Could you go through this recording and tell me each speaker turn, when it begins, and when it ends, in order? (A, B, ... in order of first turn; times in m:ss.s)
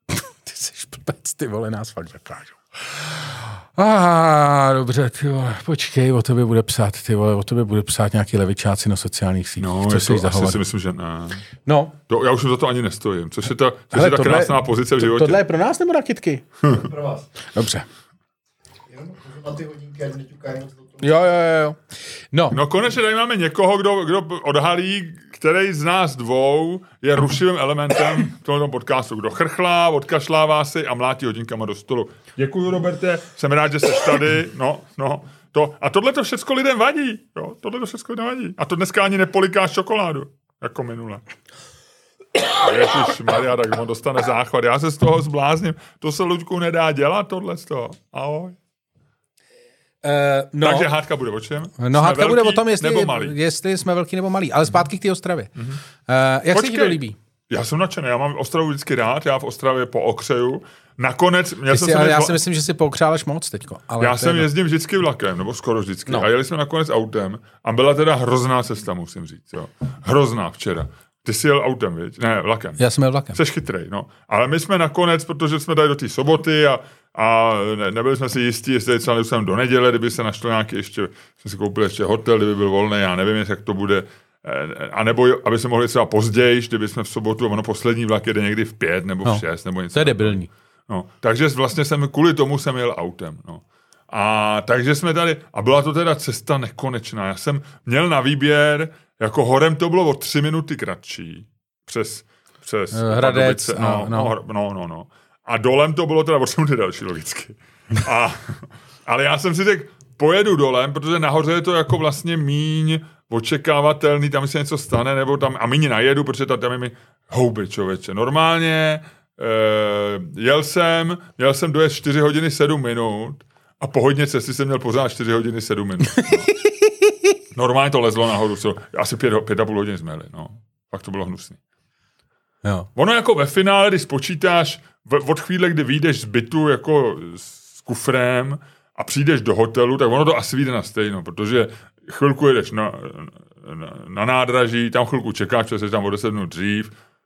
0:00.1-0:10.6 A
0:09.6-0:11.4 B
0:11.6-0:12.0 A
0:12.1-0:15.4 B
0:13.9-0:16.5 A
0:16.7-0:17.3 C
0:17.5-0:17.8 A
0:18.9-0:21.1 C
0:21.0-0:21.8 A
0:22.3-0:22.6 A
0:22.5-0:41.2 B
0:42.5-0:48.6 B
0:50.0-0:50.9 A
0:50.6-0:53.4 B
0:51.8-0:55.5 A
0:56.1-0:57.2 A
0:56.5-1:02.4 B
1:01.7-1:04.5 A
1:04.0-1:12.8 B
1:12.8-1:13.4 A
1:13.3-2:06.5 B
1:29.2-1:30.5 A
1:42.9-1:44.3 A
2:06.2-2:07.3 A
2:07.5-2:11.6 B
2:13.0-2:26.9 B